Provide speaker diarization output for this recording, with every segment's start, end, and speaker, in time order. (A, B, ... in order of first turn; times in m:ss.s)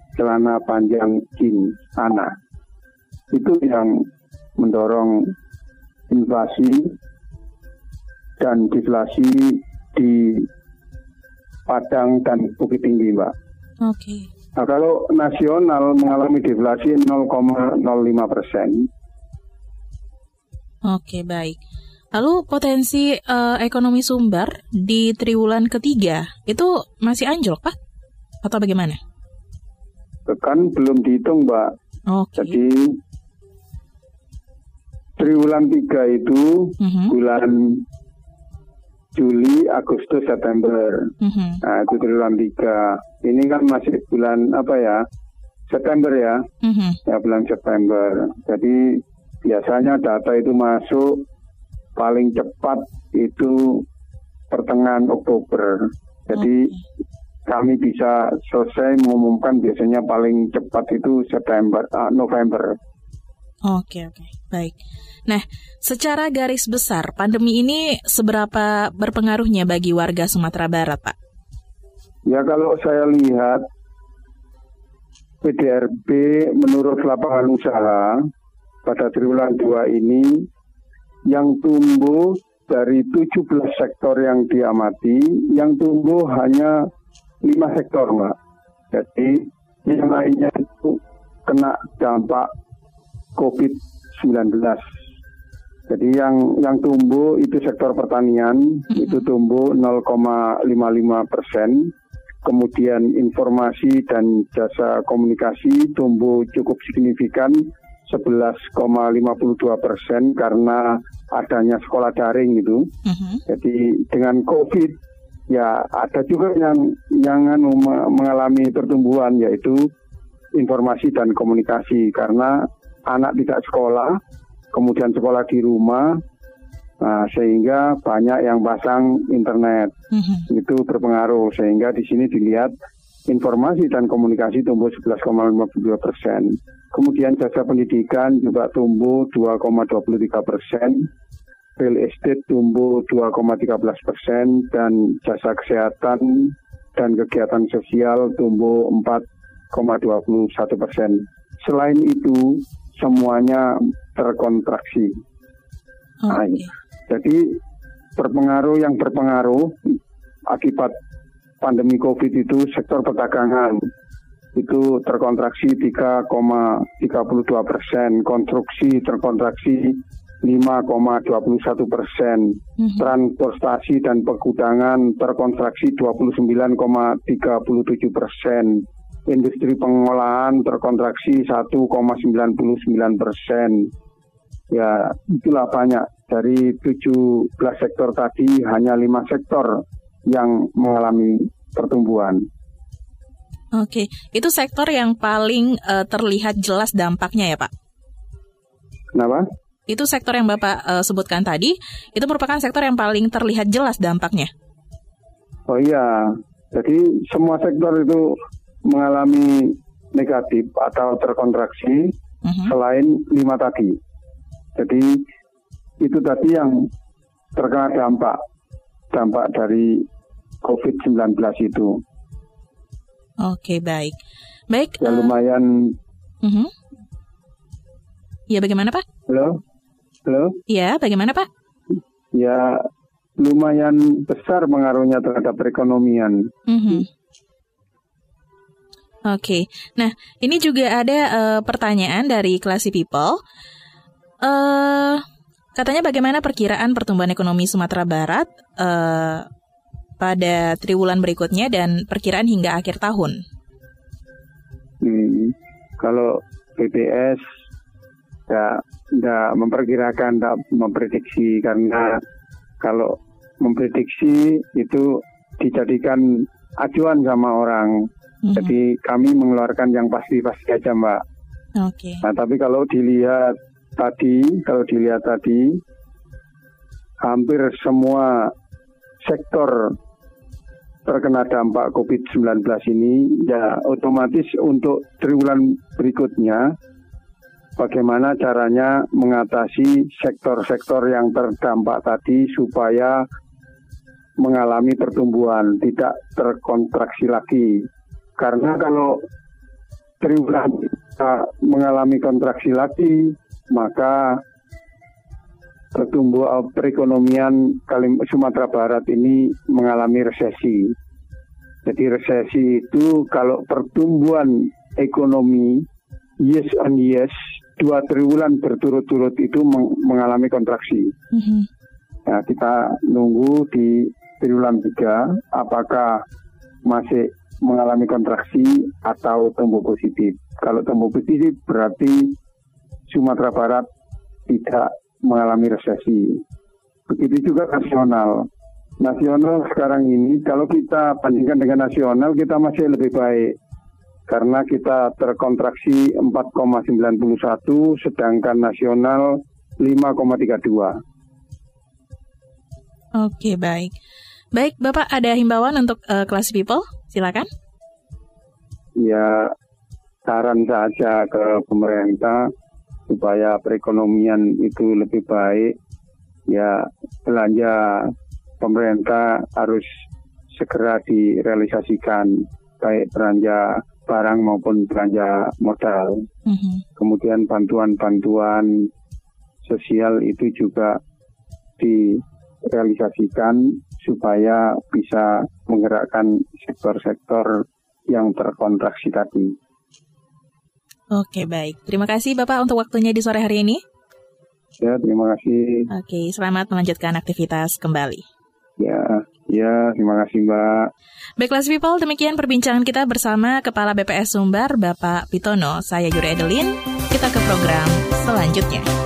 0:00.2-0:02.3 A
0:03.3-0:05.3 A
0:06.1-0:07.0 A
0:08.4-0:10.5 A
0:11.7-0:13.3 A
0:13.8-0:14.3 B
0:14.6-0:18.9 A
0:20.8-0:21.6 B
0:22.1-0:27.7 B
0:28.4-0:29.0 B
0:30.2-0:31.7 A
0:32.1-0:32.6 B
0:32.4-0:33.0 A
0:35.2-0:37.8 A
0:36.8-0:37.1 B
0:39.1-0:45.0 A
0:41.2-0:41.6 B
0:45.7-0:46.4 A
0:46.6-0:47.0 B
0:47.0-0:51.2 A
0:51.9-0:53.8 A
0:54.5-0:56.7 A
0:57.4-1:02.8 A
1:03.7-1:11.1 B
1:12.3-1:13.6 A
1:15.4-1:18.2 A
1:18.8-1:20.5 A
1:21.3-1:26.8 A
1:27.4-1:28.3 A
1:28.9-1:32.5 A
1:33.4-1:34.8 A
1:35.9-1:41.9 A
1:42.4-1:52.9 A
1:53.0-1:53.4 B
1:53.4-1:55.0 A
1:55.5-1:59.9 A
2:00.5-2:04.2 A
2:04.7-2:06.2 A
2:07.0-2:09.9 A
2:10.1-2:10.4 B
2:10.5-2:12.7 A
2:13.3-2:21.1 A
2:21.8-2:35.1 A
2:36.2-2:36.6 B
2:36.3-2:37.6 A
2:38.2-2:40.9 A
2:41.6-2:43.9 A
2:44.5-3:03.9 A
2:52.8-2:53.1 B
3:04.7-3:12.4 A
3:13.8-3:17.7 B
3:19.1-3:19.4 A
3:19.9-3:24.5 B
3:25.7-3:32.1 A
3:32.6-3:34.0 A
3:34.7-3:35.2 A
3:36.0-3:36.9 A
3:37.5-3:38.4 A
3:39.1-3:40.0 A
3:40.6-3:42.0 A
3:43.4-3:44.2 B
3:44.7-3:45.4 B
3:45.0-3:46.0 A
3:46.4-3:46.7 B
3:48.5-3:49.0 B
3:49.3-3:49.6 A
3:50.2-3:50.6 A
3:50.7-3:51.5 B
3:52.3-3:52.8 A
3:53.4-3:56.5 A
3:56.7-3:57.0 B
3:59.3-4:03.3 B
4:04.4-4:05.2 B
4:05.8-4:09.4 B
4:10.2-4:13.4 B
4:15.0-4:17.4 A
4:18.5-4:22.2 A
4:22.8-4:31.2 A
4:28.4-4:28.7 B
4:31.8-4:32.2 B
4:32.2-4:35.8 A
4:37.2-4:38.5 A
4:39.2-4:40.0 A
4:41.0-4:46.7 A
4:47.8-4:53.2 A
4:54.4-4:57.9 A
4:58.4-4:59.2 A
5:00.2-5:04.4 A
5:05.9-5:10.9 A
5:11.8-5:15.9 A
5:16.4-5:21.1 A
5:21.3-5:21.7 B
5:22.2-5:26.2 A
5:26.8-5:32.4 A
5:33.1-5:33.8 A
5:34.5-5:36.4 A
5:37.1-5:38.5 A
5:39.0-5:43.6 A
5:44.3-5:51.0 A
5:53.2-5:53.9 B
5:54.5-5:57.5 B
5:59.0-5:59.5 A
6:00.2-6:02.5 A
6:03.1-6:05.7 A
6:06.5-6:09.9 A
6:10.5-6:16.3 A
6:16.5-6:16.8 B
6:17.0-6:18.9 A
6:19.6-6:21.0 A
6:21.8-6:29.6 A
6:31.1-6:33.8 B
6:34.8-6:35.9 A
6:35.9-6:38.2 B
6:38.8-6:40.9 A
6:41.4-6:48.9 B